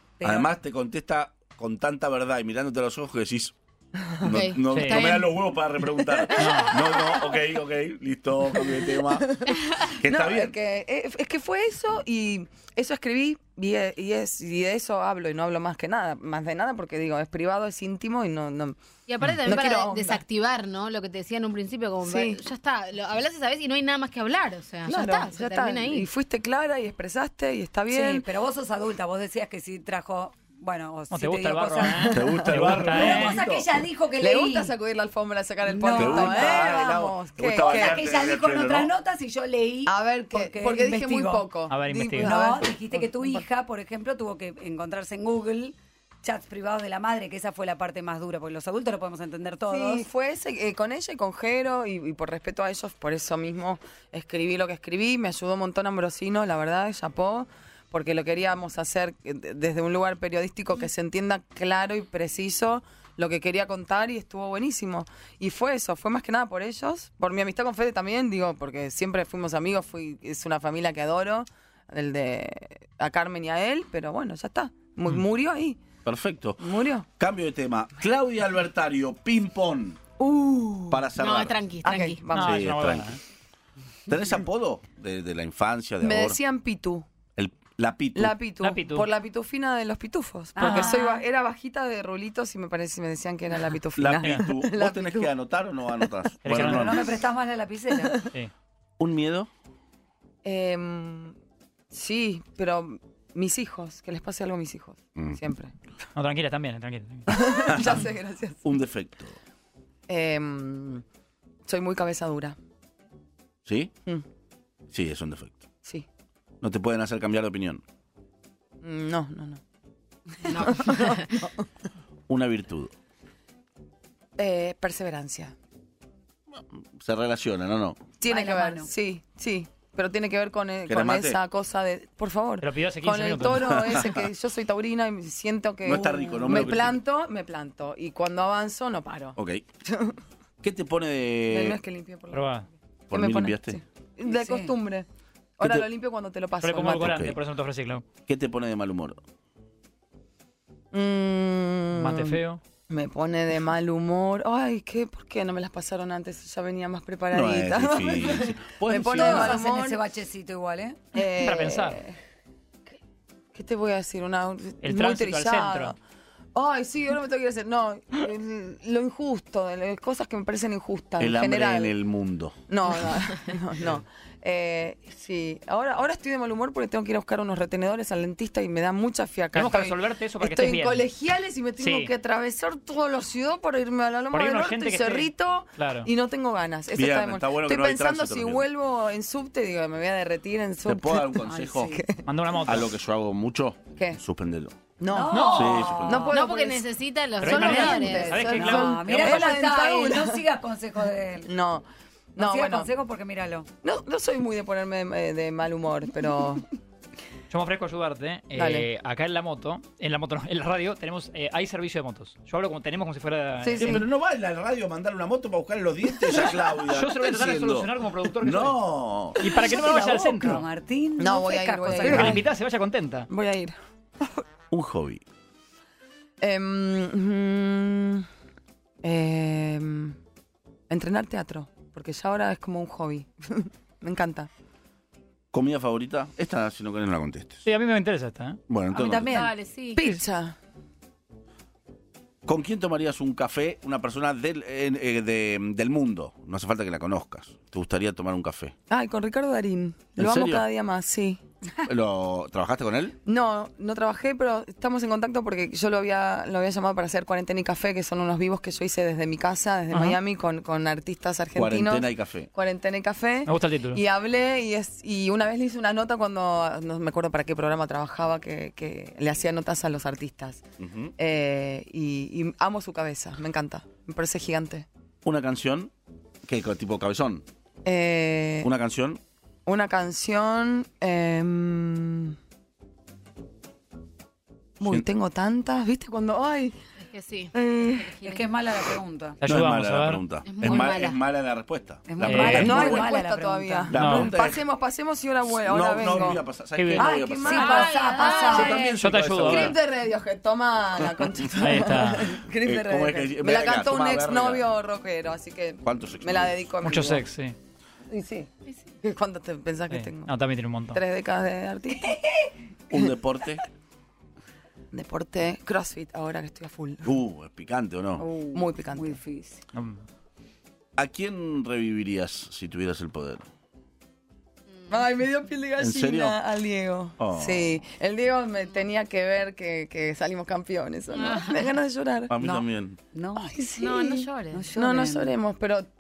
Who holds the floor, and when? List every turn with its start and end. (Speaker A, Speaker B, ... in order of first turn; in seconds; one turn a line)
Speaker A: 0.2-0.5
Speaker B: 0.2-3.5
Speaker B: 4.2-10.5
Speaker C: 4.3-5.3
Speaker D: 4.7-5.1
Speaker E: 6.3-7.3
Speaker D: 6.3-6.8
Speaker E: 8.6-18.8
Speaker C: 19.1-26.1
Speaker E: 19.4-20.2
Speaker E: 22.0-22.4
Speaker E: 24.9-28.2
Speaker A: 27.9-34.7
Speaker D: 31.1-33.4
Speaker B: 32.1-33.8
Speaker E: 34.2-38.0
Speaker A: 35.6-41.5
Speaker B: 35.9-38.9
Speaker E: 39.9-43.4
Speaker D: 41.7-42.3
Speaker A: 42.2-50.1
Speaker E: 49.7-75.8
Speaker B: 76.0-76.7
Speaker E: 76.6-77.0
Speaker B: 77.2-80.0
Speaker E: 80.2-81.0
Speaker B: 80.9-81.6
Speaker C: 81.2-82.2
Speaker E: 81.8-82.6
Speaker D: 82.3-83.2
Speaker B: 82.3-83.2
Speaker B: 84.1-86.4
Speaker E: 86.0-87.0
Speaker B: 87.4-88.3
Speaker E: 88.1-95.3
Speaker D: 88.6-89.1
Speaker A: 90.6-91.2
Speaker D: 90.6-91.0
Speaker B: 94.0-97.1
Speaker D: 96.4-97.0
Speaker A: 96.5-98.2
Speaker B: 99.0-99.5
Speaker E: 100.4-101.3
Speaker E: 101.9-105.7
Speaker D: 106.1-107.9
Speaker E: 107.3-108.6
Speaker B: 107.6-108.0
Speaker B: 108.6-109.4
Speaker E: 110.1-111.0
Speaker E: 111.7-112.6
Speaker B: 113.7-113.9
Speaker B: 114.9-115.6
Speaker B: 116.6-117.8
Speaker E: 118.8-119.6
Speaker E: 120.5-121.5
Speaker C: 120.5-121.3
Speaker B: 122.3-122.9
Speaker E: 124.4-125.5
Speaker B: 126.5-128.0
Speaker E: 128.2-140.2
Speaker A: 128.3-128.9
Speaker B: 130.9-131.4
Speaker D: 132.6-134.1
Speaker B: 133.8-134.2
Speaker B: 135.8-137.0
Speaker B: 139.4-139.6
Speaker B: 140.6-141.8
Speaker E: 141.5-142.6
Speaker D: 142.3-142.7
Speaker B: 143.1-143.8
Speaker E: 143.1-145.1
Speaker A: 144.3-144.7
Speaker E: 145.6-147.2
Speaker D: 146.6-148.0
Speaker B: 146.9-147.4
Speaker B: 148.2-149.2
Speaker E: 150.9-160.0
Speaker D: 151.9-152.6
Speaker B: 157.3-159.6
Speaker A: 159.1-161.0
Speaker E: 161.1-162.2
Speaker D: 161.4-162.0
Speaker E: 163.5-165.9
Speaker D: 164.8-165.9
Speaker E: 166.5-171.9
Speaker B: 171.2-172.6
Speaker E: 172.7-192.2
Speaker D: 179.5-181.0
Speaker D: 181.8-182.1
Speaker D: 184.3-186.1
Speaker B: 186.9-188.7
Speaker B: 190.8-192.0
Speaker A: 191.4-192.0
Speaker D: 192.2-192.9
Speaker B: 192.7-194.8
Speaker E: 195.0-196.9
Speaker A: 195.1-196.4
Speaker D: 195.3-196.0
Speaker B: 195.5-196.3
Speaker C: 196.3-198.6
Speaker D: 197.4-199.5
Speaker E: 197.4-200.4
Speaker A: 197.6-201.5
Speaker E: 201.4-202.9
Speaker A: 202.4-203.7
Speaker E: 203.8-206.7
Speaker D: 207.5-214.0
Speaker E: 208.6-208.8
Speaker E: 213.6-214.0
Speaker B: 213.8-219.4
Speaker D: 216.9-218.8
Speaker D: 219.4-220.7
Speaker A: 219.6-222.4
Speaker E: 221.2-222.5
Speaker D: 222.0-223.3
Speaker E: 223.3-224.4
Speaker B: 224.7-225.2
Speaker E: 226.4-228.3
Speaker E: 229.0-230.2
Speaker E: 230.9-234.5
Speaker B: 235.5-237.6
Speaker D: 237.6-238.6
Speaker B: 238.7-239.3
Speaker A: 238.9-239.5
Speaker C: 239.3-240.0
Speaker E: 239.9-240.6
Speaker B: 242.4-248.7
Speaker E: 248.9-251.4
Speaker B: 250.2-250.7
Speaker B: 251.8-253.2
Speaker E: 253.2-270.6
Speaker D: 259.9-260.2
Speaker B: 261.5-262.5
Speaker D: 263.4-264.0
Speaker B: 270.8-271.1
Speaker E: 271.2-274.9
Speaker B: 275.2-275.9
Speaker B: 276.4-277.4
Speaker E: 277.8-278.7
Speaker B: 278.6-279.2
Speaker E: 279.6-282.4
Speaker E: 284.8-286.8
Speaker C: 287.0-288.4
Speaker E: 287.5-288.3
Speaker A: 288.2-289.4
Speaker D: 289.4-290.2
Speaker B: 289.4-293.1
Speaker C: 290.4-291.2
Speaker A: 292.1-293.9
Speaker D: 292.2-292.8
Speaker E: 292.5-296.4
Speaker B: 293.9-294.6
Speaker D: 293.9-294.3
Speaker B: 295.5-299.8
Speaker D: 296.8-297.1
Speaker E: 296.9-307.2
Speaker A: 297.4-298.9
Speaker C: 297.5-298.9
Speaker D: 298.9-299.8
Speaker D: 301.6-302.4
Speaker B: 302.6-304.7
Speaker B: 305.8-306.6
Speaker D: 306.8-307.6
Speaker E: 308.1-310.3
Speaker D: 309.9-311.0
Speaker E: 310.9-312.4
Speaker B: 312.9-313.6
Speaker E: 314.9-317.1
Speaker B: 317.0-318.3
Speaker A: 318.2-319.6
Speaker E: 318.5-319.2
Speaker D: 319.7-320.0
Speaker B: 321.0-323.4
Speaker E: 324.9-332.3
Speaker B: 325.8-326.4
Speaker B: 327.2-327.7
Speaker C: 331.1-331.5
Speaker B: 332.3-333.0
Speaker A: 332.4-333.6
Speaker E: 333.4-335.9
Speaker C: 333.8-334.7
Speaker A: 334.5-335.3